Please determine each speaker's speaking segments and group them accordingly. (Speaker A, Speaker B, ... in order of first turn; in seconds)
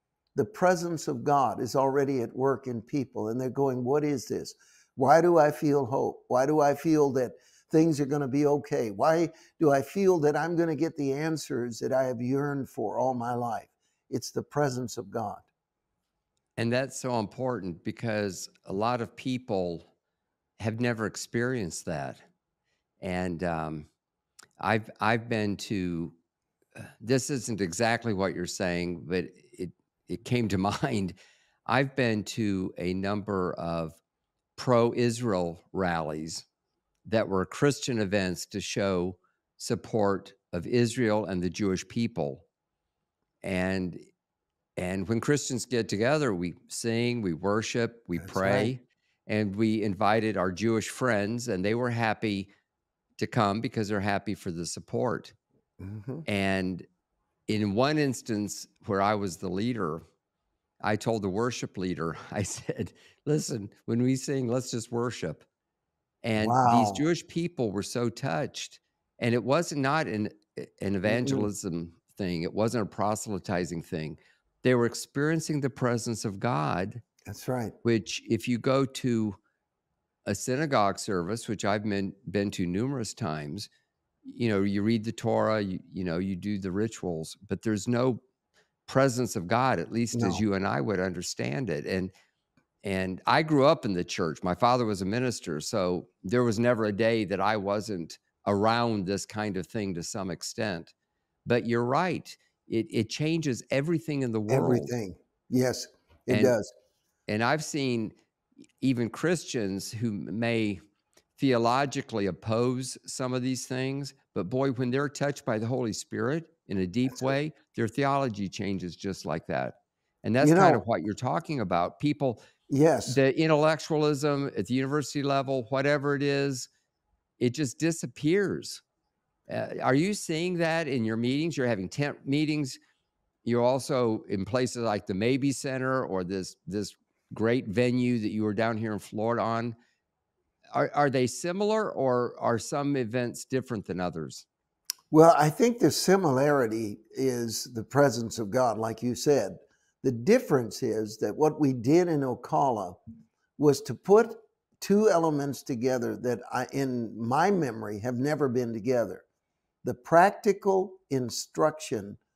Speaker A: 0.3-15.4, 48.2-48.7, 55.8-56.2, 66.4-67.0, 71.1-71.5, 77.2-77.7, 90.1-90.4, 104.5-106.7, 120.4-120.8, 122.7-123.2, 145.1-153.0, 153.6-159.2, 159.8-162.2
Speaker B: 16.6-19.9, 20.6-22.2, 23.0-23.9, 24.6-26.1, 27.0-34.0, 34.5-36.5, 37.0-42.4, 43.4-44.0, 44.8-52.5, 53.2-55.3, 56.2-56.9, 57.5-60.0, 60.8-65.4, 66.2-77.0, 77.8-79.4, 80.2-83.7, 84.2-88.2, 88.9-92.1, 92.8-100.9, 101.4-104.9, 106.3-106.5, 107.3-108.1, 108.8-110.8, 111.4-122.4, 123.1-126.7, 127.4-128.8, 129.5-132.8, 133.4-139.8, 140.7-144.4